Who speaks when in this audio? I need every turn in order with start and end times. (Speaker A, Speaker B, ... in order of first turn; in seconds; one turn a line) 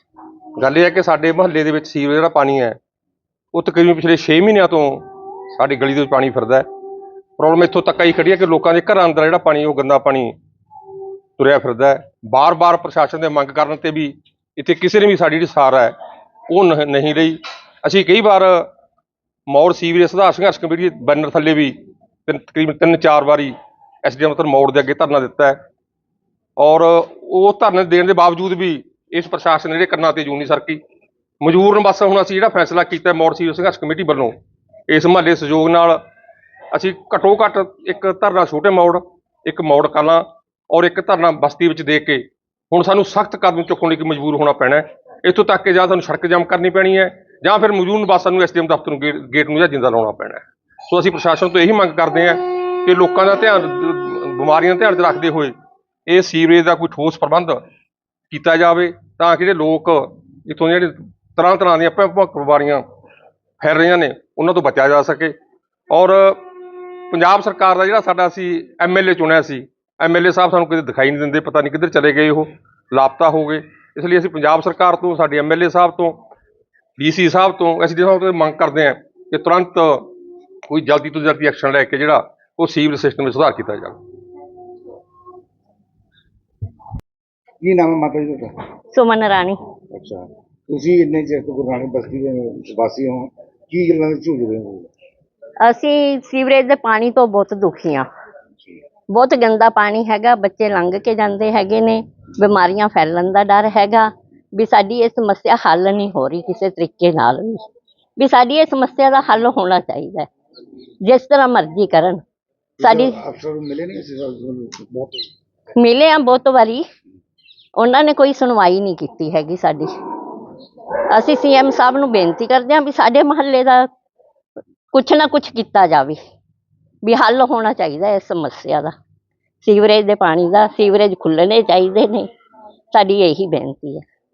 Speaker A: 0.6-2.8
Speaker A: 3.5-5.0
Speaker A: 5.6-6.7
Speaker A: 7.4-10.3
Speaker A: 11.4-15.9
Speaker A: 16.5-18.7
Speaker A: 19.5-21.8
Speaker A: 22.3-25.6
Speaker A: 26.6-30.8
Speaker A: 31.4-34.3
Speaker A: 34.9-36.0
Speaker A: 36.7-55.5
Speaker A: 56.1-57.6
Speaker A: 58.3-62.8
Speaker A: 63.6-65.3
Speaker A: 65.9-66.5
Speaker A: 67.1-76.2
Speaker A: 77.0-80.1
Speaker A: 80.7-84.0
Speaker B: 87.6-88.6
Speaker C: 89.0-89.5
Speaker B: 89.9-94.9
Speaker C: 95.7-98.0
Speaker C: 99.1-104.0
Speaker C: 104.6-107.5
Speaker C: 108.2-110.3
Speaker C: 111.1-112.2
Speaker B: 112.8-115.3
Speaker C: 112.8-113.1
Speaker C: 115.8-116.8
Speaker C: 117.8-119.8
Speaker C: 121.2-123.8
Speaker C: 124.9-126.2
Speaker C: 127.0-128.9
Speaker C: 129.6-132.3
Speaker C: 132.9-134.0